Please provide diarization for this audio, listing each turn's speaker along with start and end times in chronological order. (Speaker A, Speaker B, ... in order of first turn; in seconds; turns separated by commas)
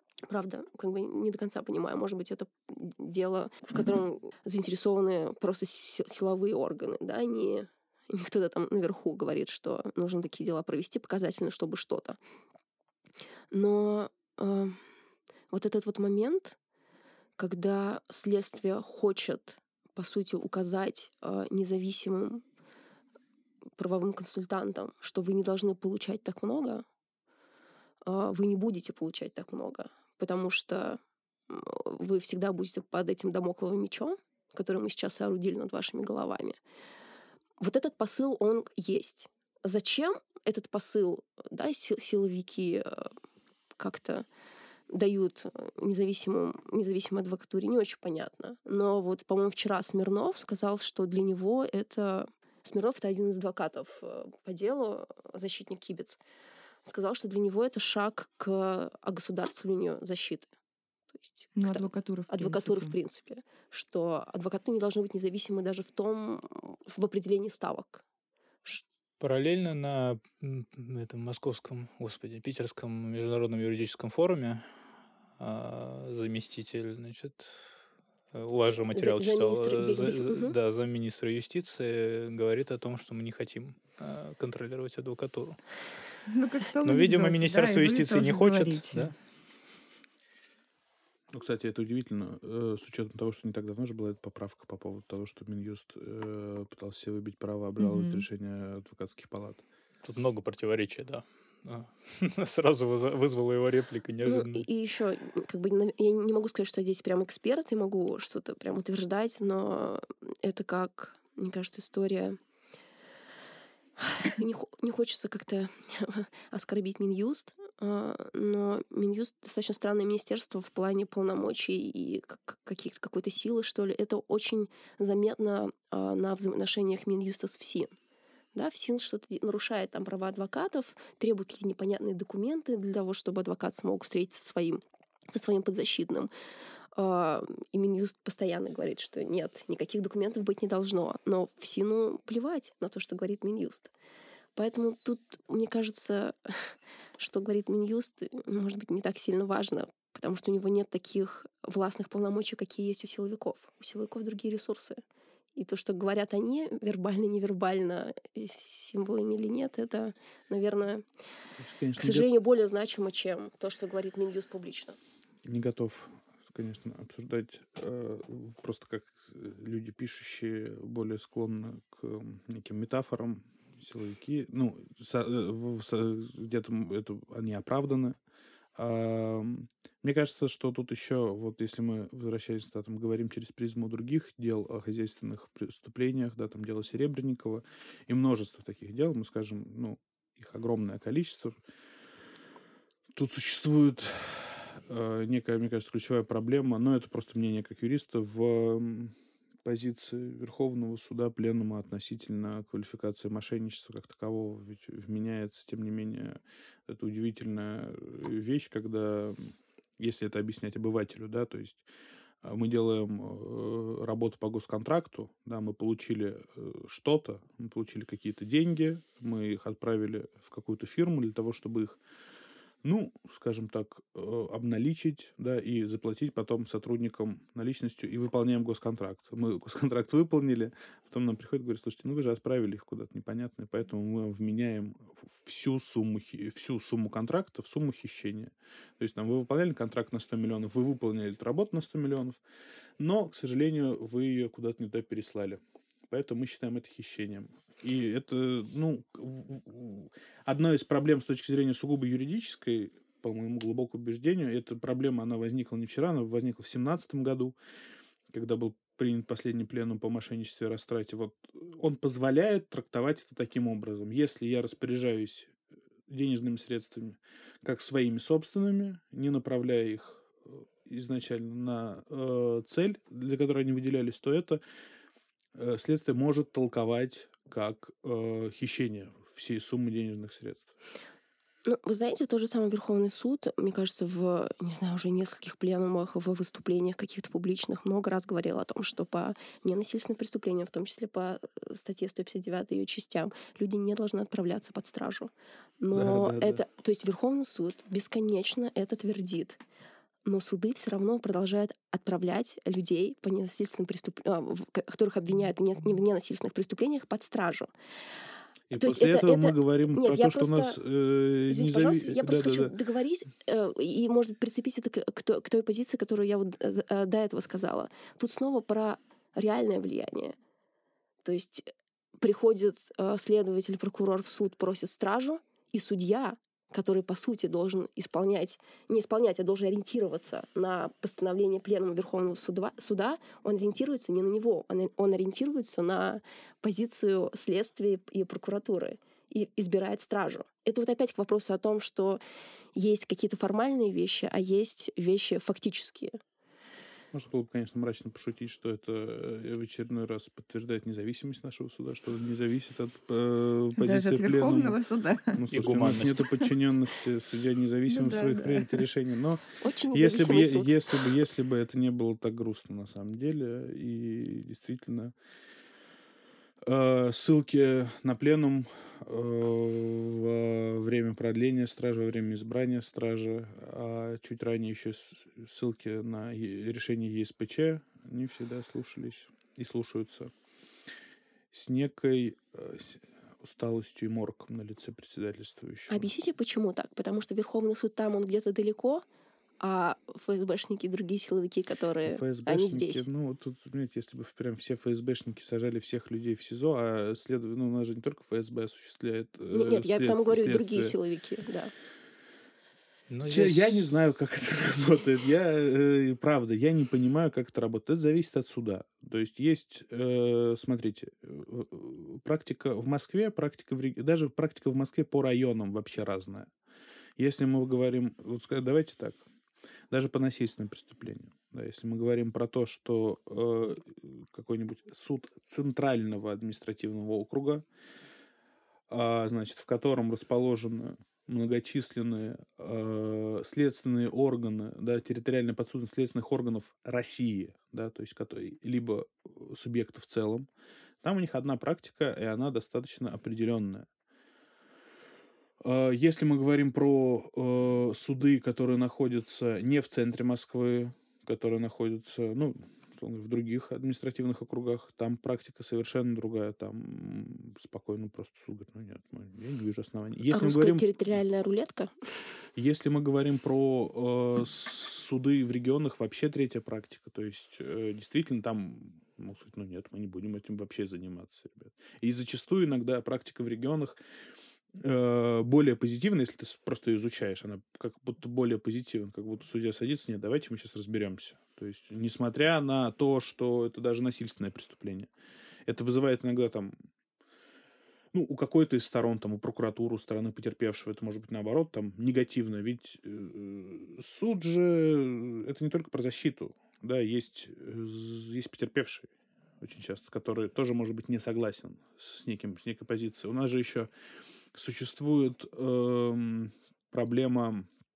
Speaker A: 0.3-12.2, Speaker A: 13.5-14.8, Speaker A: 15.5-16.6, Speaker A: 17.4-22.4, Speaker A: 23.8-26.8, Speaker A: 28.0-36.6, Speaker A: 37.6-43.1, Speaker A: 43.8-44.2, Speaker A: 44.9-56.2, Speaker A: 56.8-60.5, Speaker A: 61.1-68.0, Speaker B: 61.5-63.0, Speaker C: 69.2-74.7, Speaker C: 75.4-77.8, Speaker C: 78.3-85.6, Speaker A: 78.9-80.5, Speaker B: 86.2-89.1, Speaker C: 86.8-89.1, Speaker D: 91.3-99.6, Speaker B: 97.8-98.2, Speaker C: 100.0-104.7, Speaker A: 104.2-112.4, Speaker A: 114.0-127.9, Speaker A: 128.5-136.3, Speaker A: 136.9-143.9, Speaker A: 144.6-155.0, Speaker A: 155.6-161.0, Speaker D: 161.6-162.3, Speaker A: 162.0-165.0, Speaker D: 165.4-178.2, Speaker D: 178.8-191.6, Speaker D: 193.1-211.8, Speaker D: 212.4-222.0, Speaker D: 222.8-242.4, Speaker D: 243.0-257.5, Speaker D: 258.3-265.5, Speaker D: 266.1-274.6, Speaker D: 275.6-280.7, Speaker A: 281.6-299.6, Speaker D: 295.9-296.6, Speaker A: 300.2-307.7, Speaker D: 308.7-312.7, Speaker A: 308.8-310.8, Speaker A: 311.5-320.4, Speaker A: 321.2-321.7, Speaker A: 322.2-342.2, Speaker A: 342.7-346.2, Speaker D: 347.1-354.8, Speaker B: 353.8-355.4, Speaker D: 355.3-365.1, Speaker C: 355.5-356.3, Speaker B: 357.9-358.8, Speaker A: 359.6-361.1, Speaker D: 366.6-380.3, Speaker D: 381.5-386.1, Speaker A: 385.9-389.0, Speaker A: 389.6-393.0, Speaker D: 392.0-400.9, Speaker A: 399.5-401.7, Speaker C: 403.1-403.9, Speaker D: 403.3-416.5, Speaker D: 417.2-419.2, Speaker D: 419.9-427.6, Speaker D: 428.9-440.5, Speaker D: 441.0-443.9, Speaker D: 445.6-460.8, Speaker A: 460.3-462.0, Speaker D: 462.6-474.0, Speaker D: 474.8-485.1, Speaker D: 485.7-486.7, Speaker D: 488.1-499.1, Speaker D: 499.6-503.9, Speaker D: 504.5-507.7